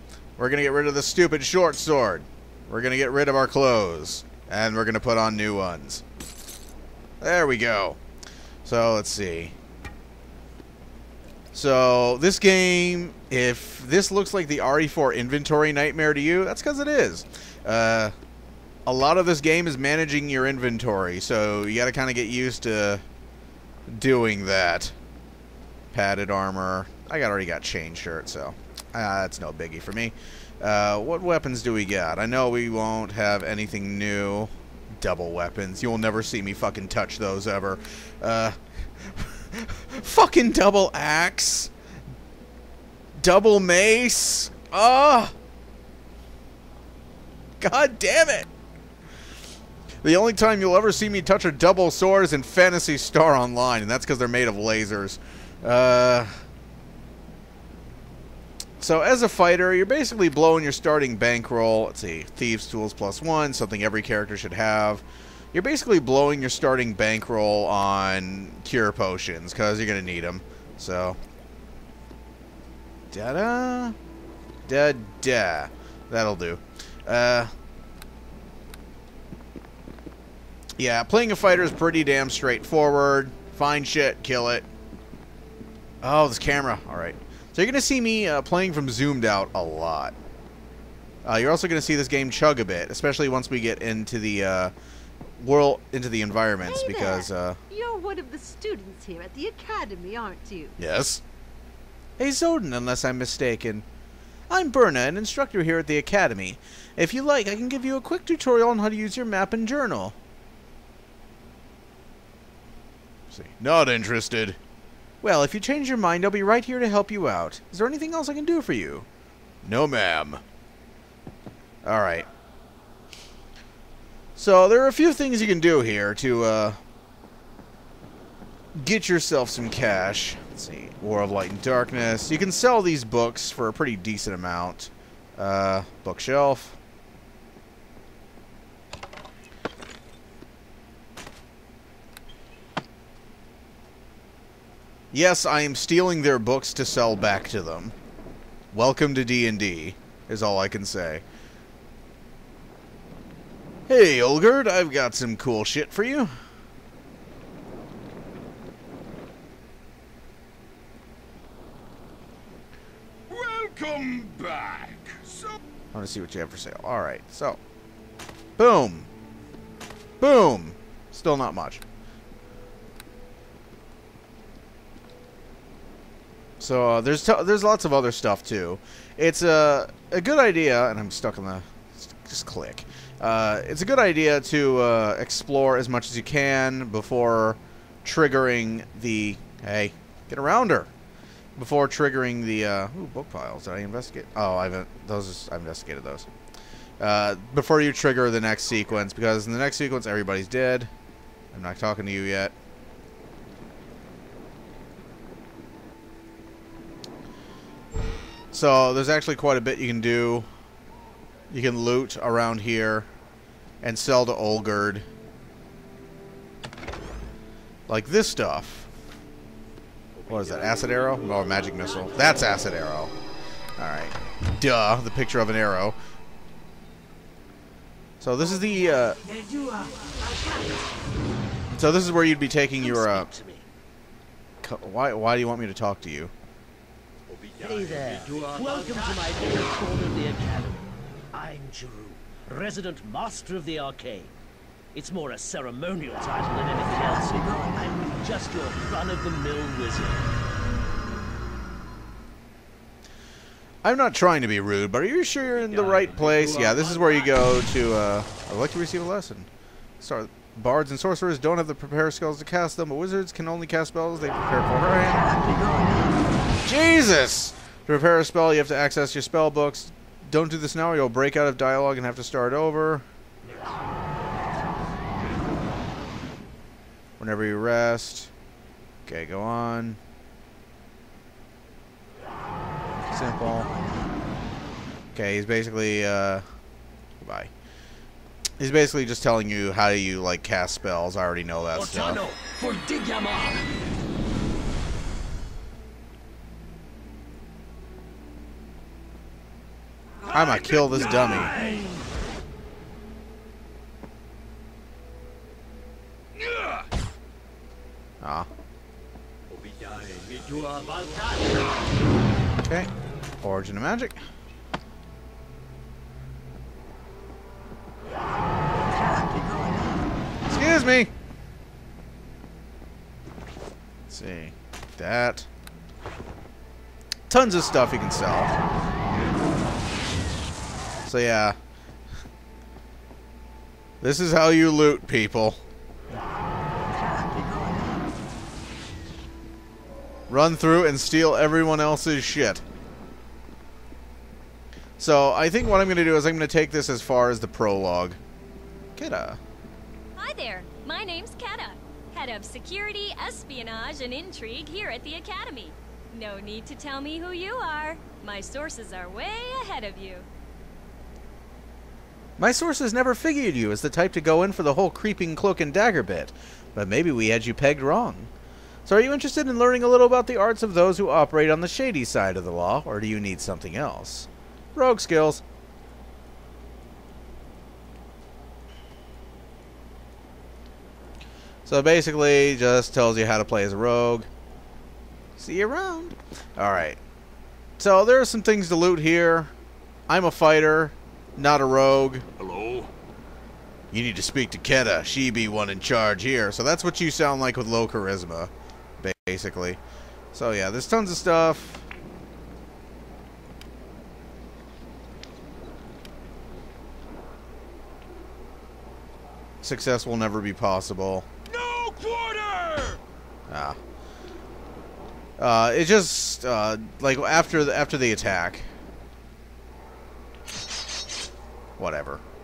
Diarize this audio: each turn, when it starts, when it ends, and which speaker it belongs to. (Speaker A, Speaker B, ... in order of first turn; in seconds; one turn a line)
Speaker A: 0.4-6.0
Speaker A: 7.2-8.0
Speaker A: 8.6-9.5
Speaker A: 11.5-18.1
Speaker A: 18.9-23.0
Speaker A: 23.9-24.9
Speaker A: 25.9-41.7
Speaker A: 43.2-45.3
Speaker A: 47.6-48.5
Speaker A: 50.0-56.3
Speaker A: 58.8-71.2
Speaker A: 73.1-74.0
Speaker A: 74.7-77.5
Speaker A: 80.8-84.7
Speaker A: 86.0-90.2
Speaker A: 91.2-94.7
Speaker A: 95.4-97.6
Speaker B: 96.6-100.7
Speaker A: 100.8-101.2
Speaker A: 102.2-103.8
Speaker A: 104.5-110.2
Speaker A: 113.3-114.6
Speaker A: 115.2-119.1
Speaker A: 119.6-120.4
Speaker A: 121.8-122.3
Speaker A: 124.3-126.8
Speaker A: 128.7-136.8
Speaker A: 145.1-147.9
Speaker A: 148.7-151.2
Speaker A: 153.9-156.3
Speaker C: 163.3-165.6
Speaker A: 165.9-167.6
Speaker A: 168.6-169.1
Speaker A: 170.2-171.8
Speaker A: 176.6-190.9
Speaker A: 191.6-196.3
Speaker A: 197.0-200.9
Speaker A: 201.5-202.5
Speaker A: 208.5-210.5
Speaker A: 211.5-213.1
Speaker A: 213.8-215.1
Speaker A: 217.9-218.9
Speaker A: 220.3-223.1
Speaker A: 223.8-226.0
Speaker A: 228.2-229.2
Speaker A: 231.7-233.3
Speaker D: 232.8-233.7
Speaker A: 234.6-236.3
Speaker D: 237.6-244.3
Speaker D: 244.9-250.3
Speaker A: 253.8-259.5
Speaker D: 255.6-257.4
Speaker A: 260.0-265.2
Speaker A: 266.6-273.1
Speaker A: 277.2-278.3
Speaker A: 279.1-280.0
Speaker A: 283.1-283.7
Speaker A: 285.1-286.4
Speaker A: 287.2-287.5
Speaker A: 288.6-292.2
Speaker D: 291.7-293.5
Speaker C: 300.2-301.9
Speaker A: 300.3-301.5
Speaker C: 306.3-306.9
Speaker A: 308.2-308.5
Speaker D: 310.3-311.6
Speaker A: 312.6-312.9
Speaker A: 313.4-314.2
Speaker A: 320.5-321.1
Speaker A: 324.1-325.5
Speaker A: 327.3-328.6
Speaker A: 331.0-331.6
Speaker A: 334.0-335.6
Speaker A: 340.3-342.6
Speaker A: 345.0-348.2
Speaker A: 348.9-349.4
Speaker E: 350.2-360.3
Speaker A: 362.4-368.3
Speaker A: 368.9-375.4
Speaker A: 381.6-384.3
Speaker A: 385.4-387.0
Speaker A: 387.8-389.5
Speaker A: 390.1-392.2
Speaker C: 392.4-392.9
Speaker A: 393.9-399.8
Speaker A: 400.3-401.8
Speaker A: 409.6-411.3
Speaker C: 411.5-413.0
Speaker A: 413.5-413.8
Speaker A: 415.4-418.7
Speaker A: 421.8-422.2